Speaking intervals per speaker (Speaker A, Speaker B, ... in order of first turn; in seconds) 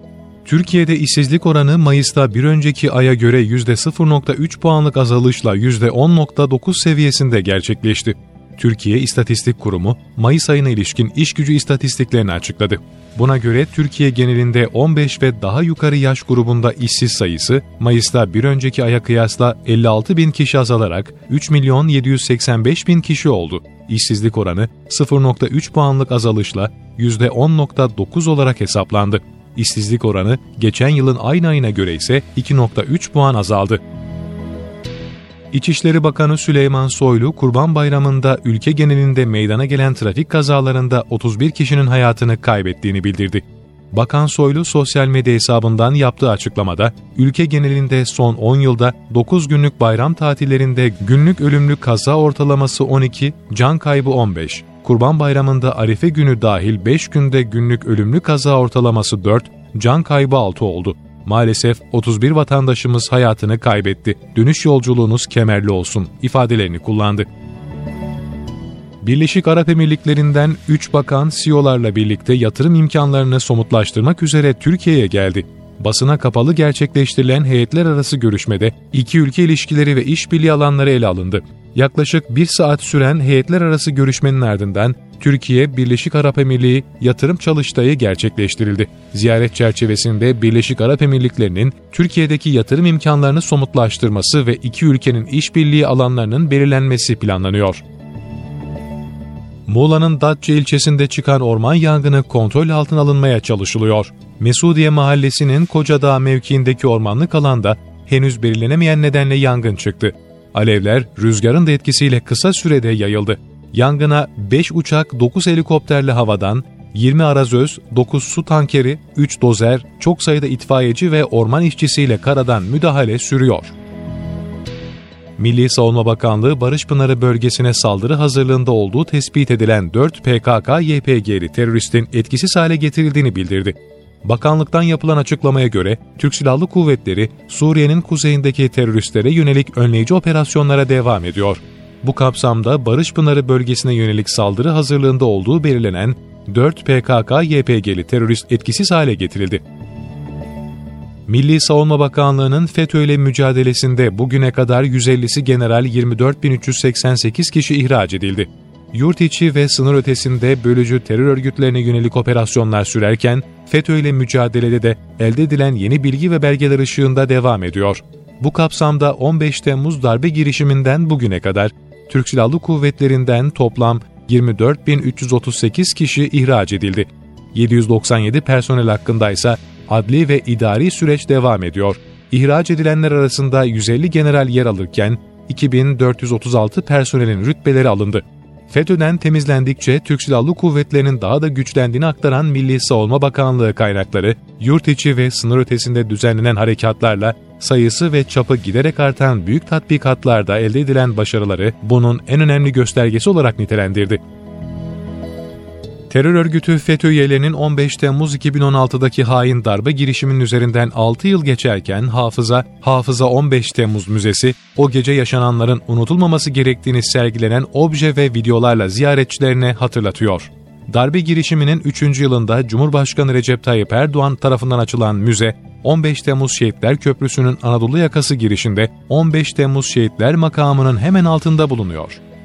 Speaker A: 0.5-33.8, 35.5-67.3, 69.0-97.8, 99.7-123.7, 125.4-149.6, 151.3-204.2, 206.1-232.2